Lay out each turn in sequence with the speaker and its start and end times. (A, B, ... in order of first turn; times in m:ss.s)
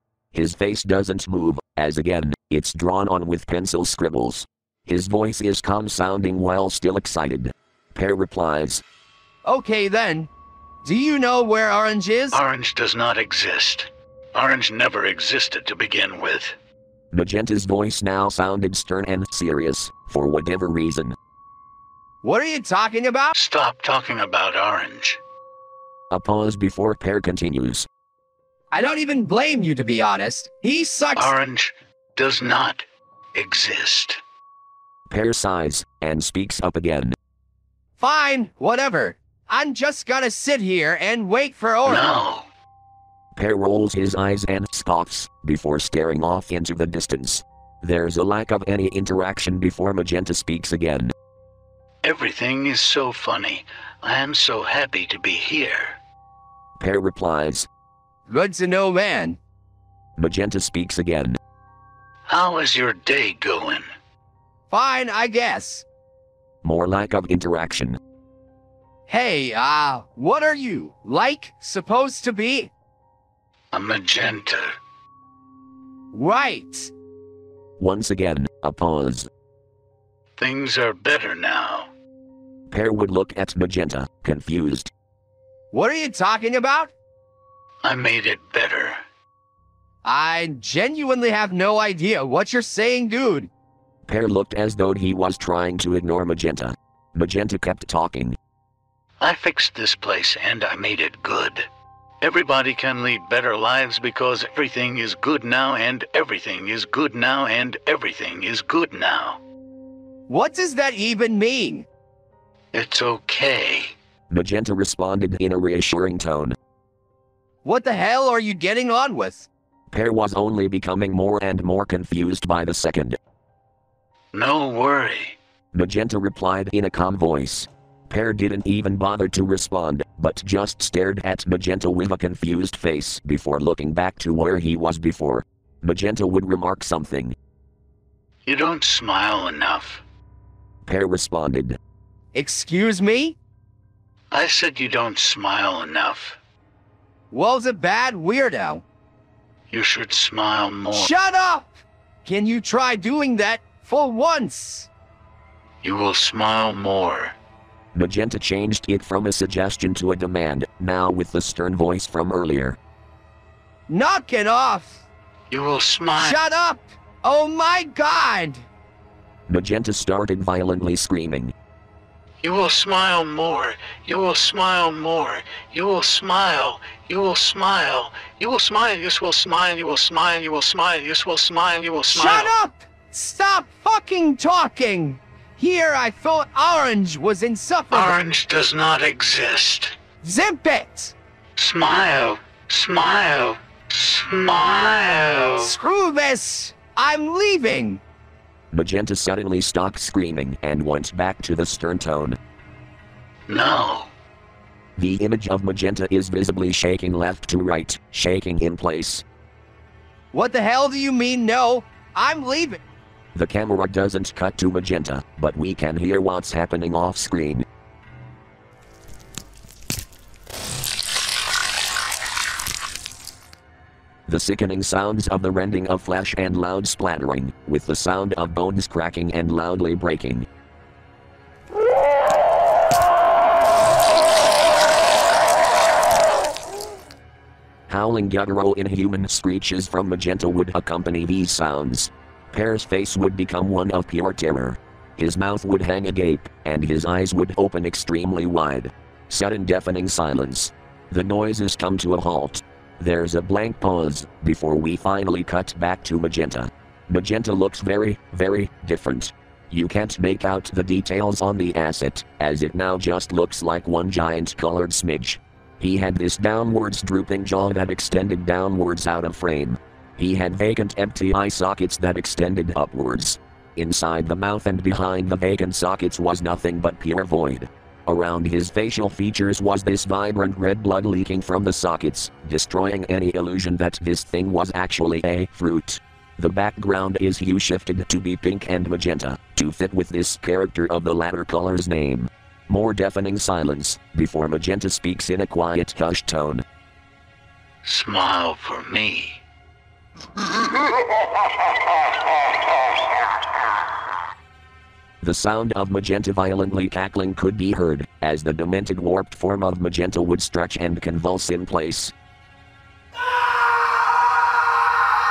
0:00.3-0:08.8 A
0:09.4-0:10.3 B
0:10.8-0:12.4 B
0:12.3-0:16.5 C
0:17.1-0:21.1 A
0:22.2-0:23.3 B
0:23.3-0:25.2 C
0:26.1-0:27.9 A
0:28.7-0:31.3 B
0:31.2-0:34.2 C
0:35.1-0:37.1 A
0:38.0-0:42.1 B
0:41.8-0:42.5 C
0:43.3-0:51.1 A
0:52.0-0:56.0 C
0:56.8-0:57.7 A
0:58.3-0:59.4 B
1:00.2-1:01.4 A
1:02.3-1:03.9 C
1:04.7-1:05.8 B
1:06.6-1:08.0 A
1:09.1-1:12.7 B
1:13.7-1:14.8 C
1:16.1-1:16.9 B
1:17.8-1:19.3 A
1:20.4-1:21.9 C
1:22.7-1:24.9 A
1:25.7-1:26.9 B
1:27.8-1:29.0 C
1:30.0-1:33.5 B
1:34.1-1:38.4 A
1:39.2-1:41.6 C
1:42.2-1:49.4 C
1:50.3-1:51.9 B
1:52.7-1:53.9 C
1:54.3-1:56.6 A
1:57.6-1:59.5 B
1:59.9-2:03.2 A
2:04.3-2:05.4 C
2:05.7-2:17.4 A
2:18.4-2:20.0 C
2:20.8-2:21.8 A
2:22.3-2:23.4 B
2:24.3-2:26.4 C
2:27.3-2:28.8 B
2:29.7-2:31.1 C
2:30.9-2:34.9 B
2:35.8-2:37.3 C
2:37.9-2:42.8 A
2:43.9-2:45.0 B
2:45.5-2:46.4 C
2:46.2-2:48.6 B
2:49.5-2:51.5 A
2:52.4-3:02.5 C
3:02.1-3:08.2 B
3:07.9-3:10.0 C
3:10.2-3:11.1 B
3:11.6-3:15.7 C
3:15.6-3:18.0 B
3:18.7-3:22.4 A
3:23.5-3:24.1 C
3:25.0-3:29.2 A
3:30.3-3:32.8 B
3:33.3-3:37.6 A
3:44.3-3:50.4 A
3:57.9-4:56.6 A
4:57.8-4:59.4 C
5:05.2-5:12.1 A